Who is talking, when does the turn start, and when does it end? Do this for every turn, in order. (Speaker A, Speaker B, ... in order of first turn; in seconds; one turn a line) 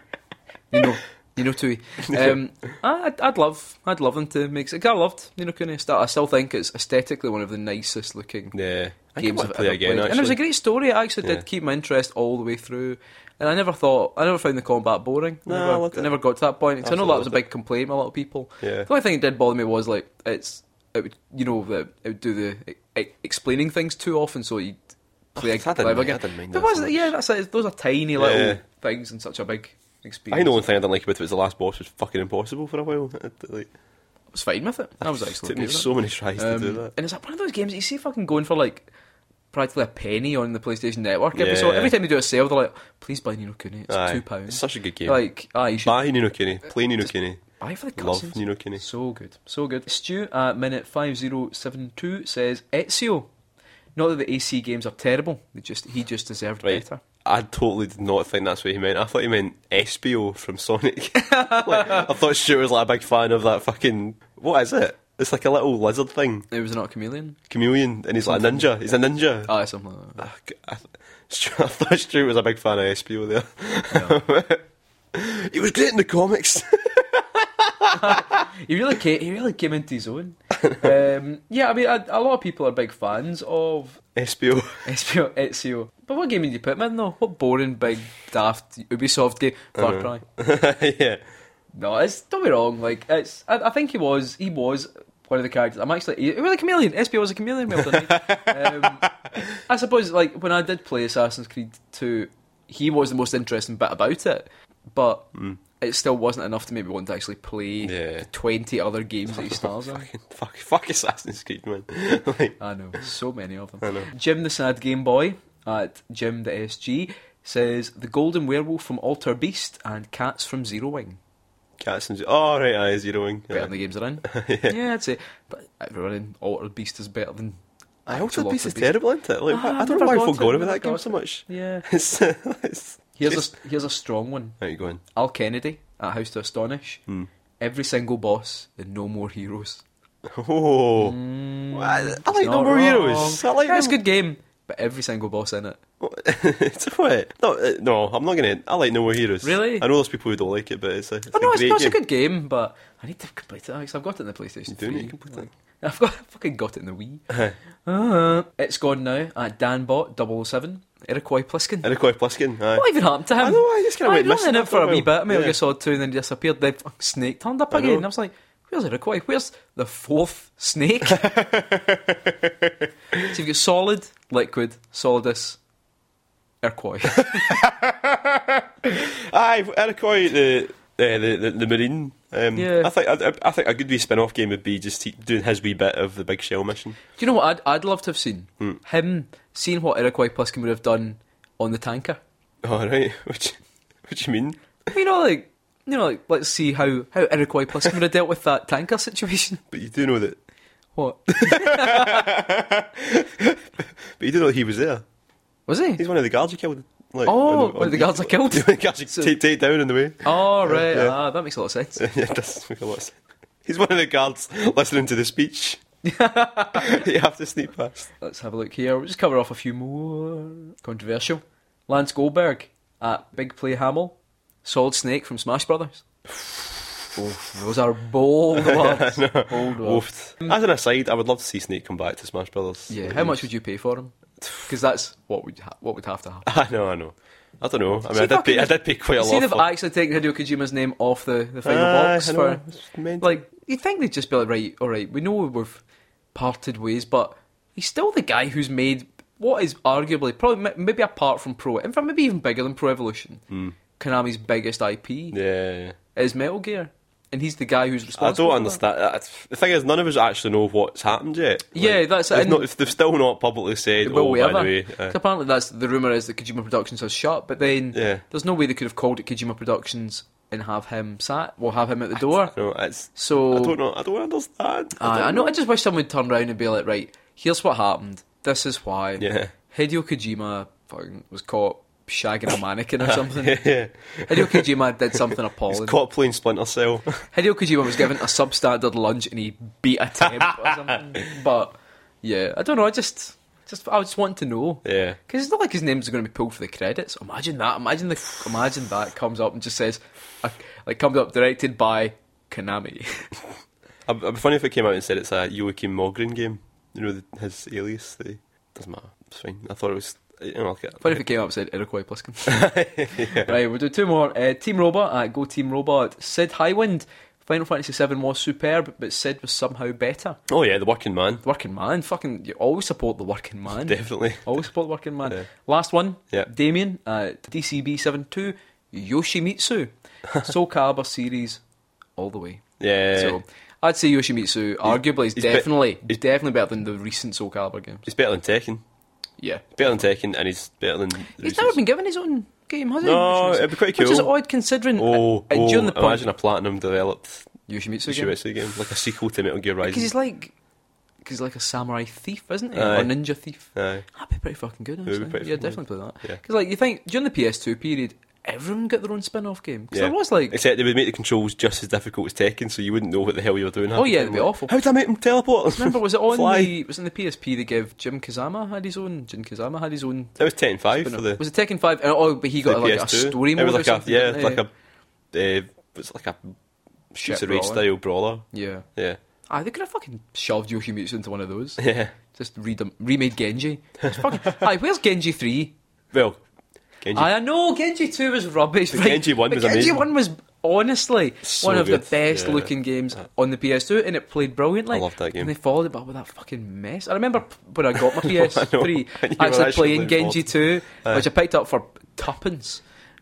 Speaker A: 0.7-8.5
Speaker B: 2.1-2.4
Speaker B: 8.5-10.4
Speaker A: 9.1-24.8
Speaker B: 15.4-16.1
Speaker B: 16.8-17.4
Speaker B: 18.6-18.9
Speaker A: 25.3-30.6
Speaker B: 25.4-27.1
Speaker B: 28.2-28.6
Speaker B: 30.3-33.7
Speaker A: 34.3-38.9
Speaker B: 35.0-36.9
Speaker A: 39.5-46.0
Speaker B: 41.4-41.9
Speaker B: 43.9-45.2
Speaker B: 45.8-47.4
Speaker A: 47.6-53.3
Speaker B: 48.0-48.8
Speaker A: 54.0-57.0
Speaker B: 56.6-66.5
Speaker A: 61.3-62.1
Speaker A: 66.5-67.4
Speaker B: 67.5-69.5
Speaker A: 68.3-68.6
Speaker A: 69.5-70.2
Speaker B: 70.2-78.4
Speaker A: 77.9-84.0
Speaker B: 84.1-84.9
Speaker A: 84.8-90.2
Speaker B: 89.8-91.2
Speaker A: 91.7-105.3
Speaker B: 97.7-99.1
Speaker A: 105.8-110.1
Speaker B: 107.8-108.3
Speaker B: 109.3-112.6
Speaker A: 112.6-121.2
Speaker B: 113.8-114.1
Speaker B: 121.8-123.7
Speaker A: 123.5-131.9
Speaker B: 124.2-124.8
Speaker B: 128.1-133.5
Speaker A: 133.2-134.6
Speaker B: 134.6-135.0
Speaker A: 135.1-137.0
Speaker A: 137.6-139.8
Speaker B: 140.2-141.2
Speaker A: 141.0-145.8
Speaker B: 141.7-144.0
Speaker B: 146.0-152.0
Speaker A: 149.4-149.9
Speaker A: 151.3-157.2
Speaker B: 154.7-155.5
Speaker B: 157.3-157.6
Speaker A: 157.8-161.9
Speaker B: 161.8-162.9
Speaker A: 162.7-171.3
Speaker B: 163.4-165.6
Speaker B: 167.7-168.1
Speaker B: 171.1-172.7
Speaker A: 173.2-175.6
Speaker A: 176.6-177.6
Speaker B: 177.2-187.0
Speaker A: 182.6-182.9
Speaker A: 187.2-192.2
Speaker B: 192.6-194.6
Speaker A: 194.9-199.6
Speaker B: 199.7-200.4
Speaker A: 200.9-202.4
Speaker B: 201.4-203.6
Speaker B: 204.2-205.0
Speaker A: 205.7-206.0
Speaker B: 206.0-211.1
Speaker A: 207.2-209.3
Speaker A: 210.2-212.0
Speaker B: 212.0-215.8
Speaker A: 216.0-217.0
Speaker B: 216.7-218.1
Speaker A: 218.2-226.0
Speaker B: 226.3-226.9
Speaker A: 227.1-230.5
Speaker B: 228.6-233.5
Speaker A: 232.9-236.5
Speaker B: 236.4-239.7
Speaker A: 238.1-242.6
Speaker B: 241.6-243.4
Speaker A: 243.2-245.8
Speaker A: 246.3-253.4
Speaker A: 254.0-255.4
Speaker B: 255.3-256.0
Speaker A: 256.1-258.8
Speaker B: 258.1-265.1
Speaker A: 261.7-262.7
Speaker A: 264.0-272.5
Speaker B: 267.9-268.2
Speaker B: 272.5-275.5
Speaker A: 273.1-273.8
Speaker A: 275.0-283.6
Speaker B: 279.2-279.5
Speaker B: 283.1-284.7
Speaker A: 284.3-286.0
Speaker B: 285.7-287.2
Speaker A: 287.3-303.3
Speaker B: 290.4-291.0
Speaker B: 294.8-295.2
Speaker B: 304.1-311.2
Speaker A: 311.0-320.4
Speaker B: 312.5-313.6
Speaker B: 320.5-321.4
Speaker A: 321.4-331.6
Speaker B: 323.9-324.5
Speaker A: 332.2-338.1
Speaker B: 332.8-333.4
Speaker B: 334.9-335.7
Speaker B: 338.1-338.8
Speaker A: 339.4-339.7
Speaker B: 339.8-341.8
Speaker A: 341.4-346.2
Speaker B: 343.0-344.3
Speaker B: 345.0-347.5
Speaker A: 347.7-348.4
Speaker B: 348.0-350.1
Speaker A: 349.8-350.5
Speaker A: 351.2-360.5
Speaker B: 352.8-353.2
Speaker B: 353.8-354.1
Speaker B: 355.1-356.4
Speaker B: 359.9-366.7
Speaker A: 363.9-364.8
Speaker A: 365.8-374.6
Speaker B: 370.4-371.4
Speaker B: 372.6-374.7
Speaker B: 375.3-376.6
Speaker B: 377.1-378.4
Speaker A: 377.1-377.9
Speaker A: 378.5-378.9
Speaker A: 379.5-381.8
Speaker B: 381.8-382.1
Speaker A: 382.3-385.8
Speaker B: 384.1-384.6
Speaker B: 386.1-386.4
Speaker B: 387.0-387.3
Speaker A: 387.1-402.8
Speaker B: 388.9-390.1
Speaker B: 391.4-392.7
Speaker B: 394.9-395.5
Speaker B: 397.9-401.3